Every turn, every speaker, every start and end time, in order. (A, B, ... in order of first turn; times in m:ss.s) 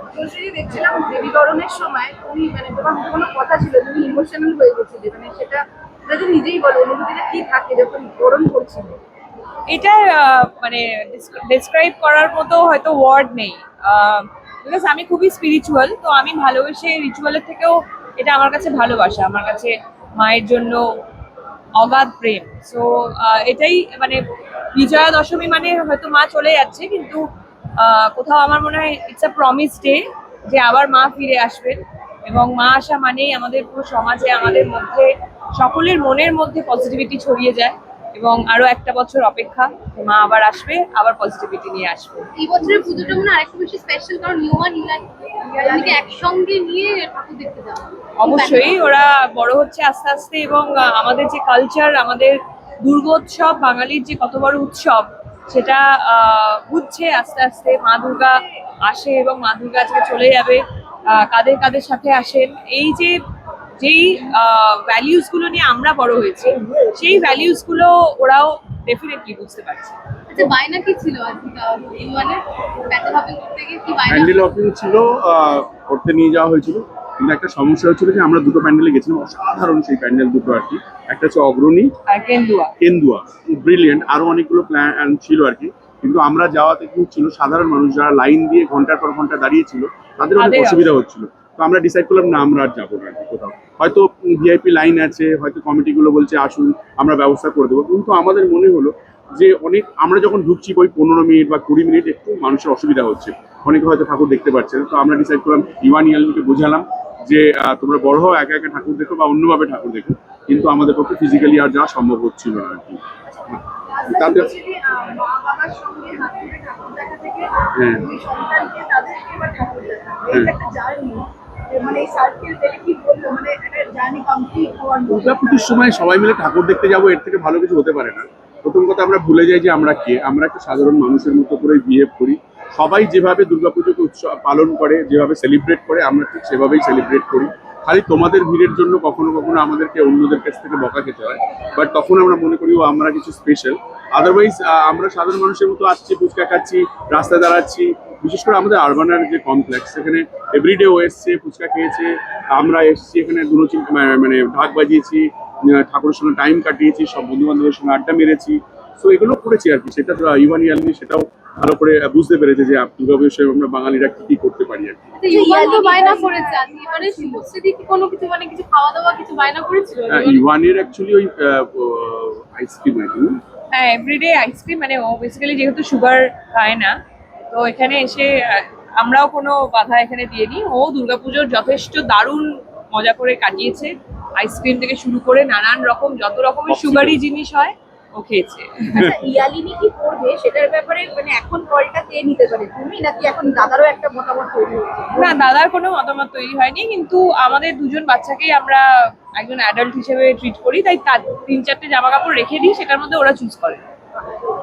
0:00.1-0:09.0 A
0:09.7-0:20.8 B
0:21.8-0:24.2 B
0:24.8-0:27.2 B
0:27.8-0:42.3 B
0:42.4-0:48.8 C
0:42.6-0:43.2 A
0:45.6-0:46.0 A
0:48.2-1:03.2 B
1:03.8-1:10.0 B
1:10.3-1:14.4 C
1:14.1-1:21.9 D
1:22.1-1:22.7 B
1:22.8-1:53.6 D
1:30.4-1:30.9 B
1:53.9-2:05.8 A
1:54.2-1:54.5 D
1:57.8-1:58.1 D
2:05.1-2:45.1 D
2:45.2-2:50.4 C
2:45.3-2:47.4 A
2:50.1-2:53.4 D
2:53.7-2:56.9 B
2:57.5-3:09.1 B
3:06.7-3:07.2 D
3:08.9-3:15.4 A
3:15.2-3:23.8 B